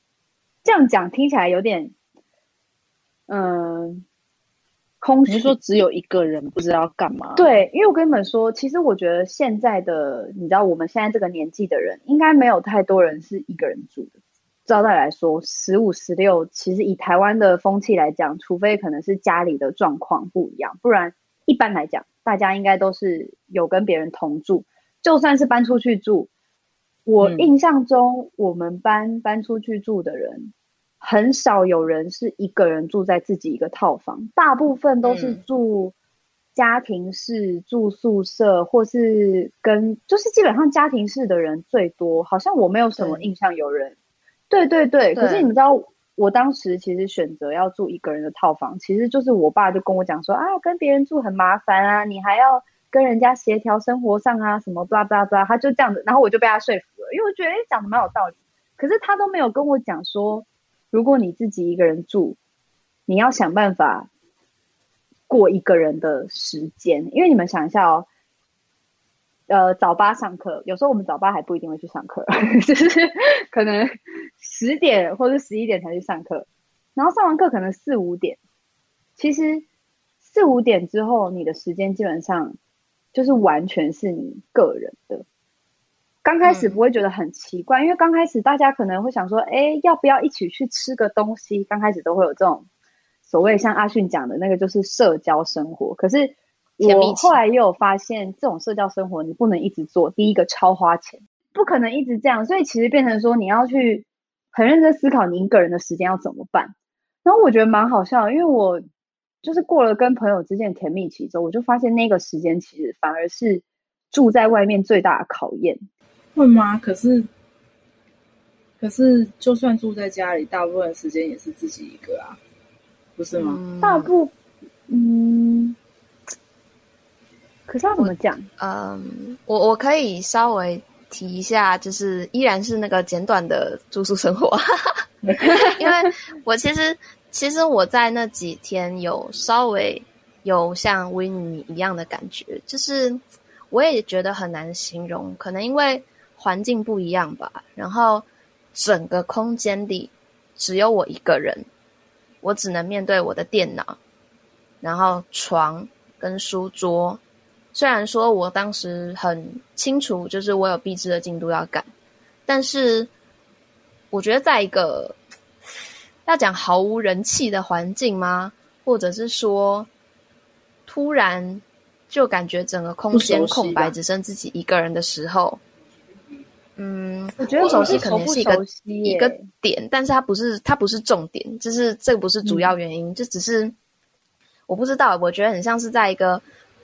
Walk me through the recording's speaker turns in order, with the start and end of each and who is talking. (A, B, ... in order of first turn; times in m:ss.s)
0:00.6-0:01.9 A
0:03.3-0:04.0 A
0:05.0-0:05.6 A
0:05.3-0:07.5 B
0:07.4-0:14.1 A
0:14.6-0:26.3 A
0:27.0-0:35.9 A
0:27.2-0:27.5 B
0:35.0-0:35.4 C
0:36.5-0:43.9 A
0:43.0-0:43.2 C
0:44.5-1:02.4 A
0:45.1-0:45.5 C
1:03.1-1:04.1 A
1:05.3-1:08.1 A
1:09.5-1:13.9 A
1:14.4-1:18.4 A
1:19.2-1:19.6 A
1:20.2-1:22.6 A
1:23.1-1:25.2 A
1:26.2-1:32.6 A
1:26.4-1:26.8 C
1:33.3-1:46.7 A
1:36.8-1:37.4 C
1:47.2-1:48.8 A
1:49.4-1:55.8 A
1:56.3-1:57.3 B
1:58.8-2:02.4 B
2:03.2-2:03.6 B
2:03.4-2:04.1 C
2:03.8-2:04.3 A
2:04.9-2:05.8 A
2:07.7-2:08.5 A
2:08.0-2:15.0 C
2:15.2-2:15.8 B
2:15.7-2:31.7 C
2:32.4-2:34.0 C
2:34.8-2:37.2 C
2:37.7-2:41.9 C
2:42.5-2:43.1 C
2:44.1-2:45.2 C
2:46.2-2:49.9 C
2:50.9-2:55.6 C
2:53.1-2:53.9 B
2:56.8-3:03.7 C
2:57.4-2:59.5 A
2:57.6-2:58.0 B
3:04.7-3:06.4 C